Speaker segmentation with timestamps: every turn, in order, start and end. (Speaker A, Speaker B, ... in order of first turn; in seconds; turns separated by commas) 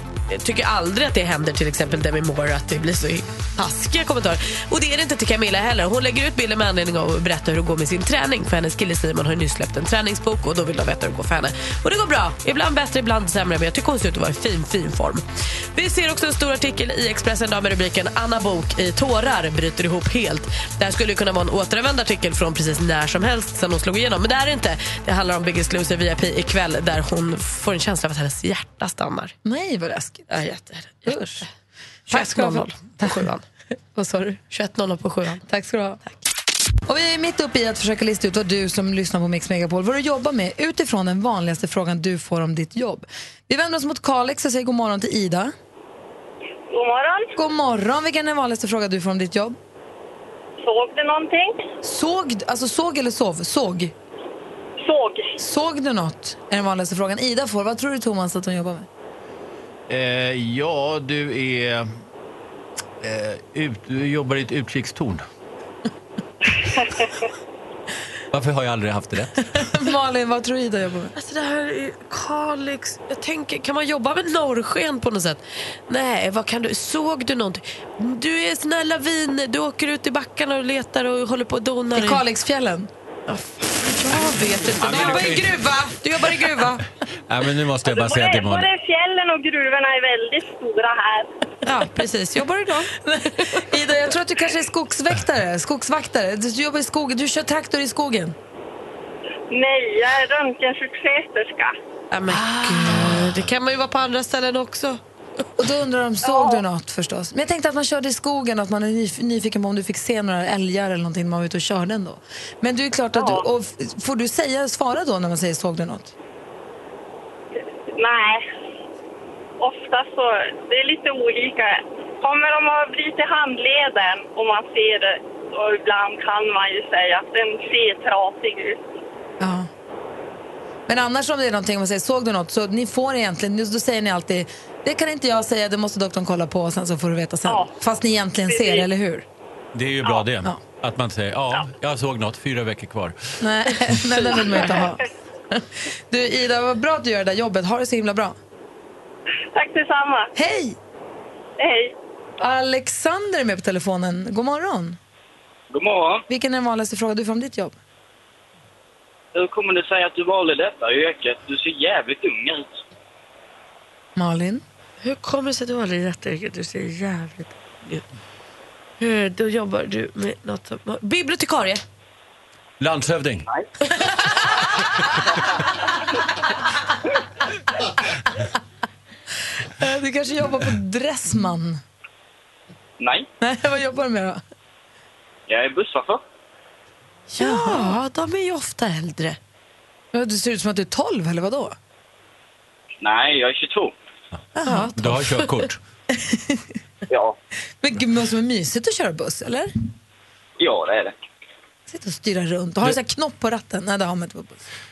Speaker A: 0.3-15.2, Speaker A: 15.8-29.3, Speaker B: 29.4-30.4, Speaker A: 30.3-31.5, Speaker B: 31.1-31.5, Speaker A: 32.1-33.4, Speaker B: 32.1-33.3, Speaker B: 34.0-34.4, Speaker A: 34.5-35.4, Speaker B: 35.5-36.0, Speaker B: 36.9-45.5, Speaker C: 46.7-47.3, Speaker B: 47.4-49.6, Speaker C: 50.6-51.6, Speaker B: 51.8-53.9, Speaker C: 54.8-55.4, Speaker B: 55.4-58.9, Speaker D: 59.9-61.9, Speaker D: 63.0-65.2, Speaker D: 68.3-69.6, Speaker B: 69.5-71.1, Speaker A: 71.2-82.2, Speaker B: 82.0-82.9, Speaker A: 83.3-86.8, Speaker D: 84.8-85.5, Speaker B: 84.8-86.4, Speaker D: 87.3-88.7, Speaker C: 87.9-91.3, Speaker A: 91.7-92.9, Speaker B: 93.0-98.4, Speaker C: 99.5-101.8, Speaker A: 102.1-105.0, Speaker B: 102.3-103.2, Speaker B: 105.6-116.1, Speaker C: 106.2-106.6, Speaker C: 113.2-113.5, Speaker C: 118.0-118.5, Speaker C: 119.6-128.9, Speaker B: 129.4-129.7, Speaker B: 130.9-139.3, Speaker C: 137.5-137.7, Speaker C: 138.5-138.9, Speaker D: 139.7-143.2, Speaker B: 143.4-148.4, Speaker C: 149.5-150.3, Speaker B: 150.3-150.8, Speaker C: 151.6-151.9, Speaker B: 152.4-155.0, Speaker E: 155.7-156.2, Speaker B: 156.3-157.8, Speaker E: 159.3-162.8, Speaker B: 164.2-164.6, Speaker A: 165.0-168.0, Speaker A: 169.0-171.8, Speaker D: 172.8-173.5, Speaker B: 179.6-181.8, Speaker E: 183.0-183.3, Speaker B: 183.4-184.4, Speaker E: 185.5-186.2, Speaker A: 187.3-189.4, Speaker B: 187.4-187.9, Speaker B: 190.1-191.8, Speaker E: 193.0-193.9, Speaker B: 194.6-195.0, Speaker D: 195.0-195.8, Speaker B: 196.1-196.6, Speaker E: 197.1-197.4, Speaker B: 197.8-199.7, Speaker E: 200.6-201.2, Speaker B: 201.9-204.7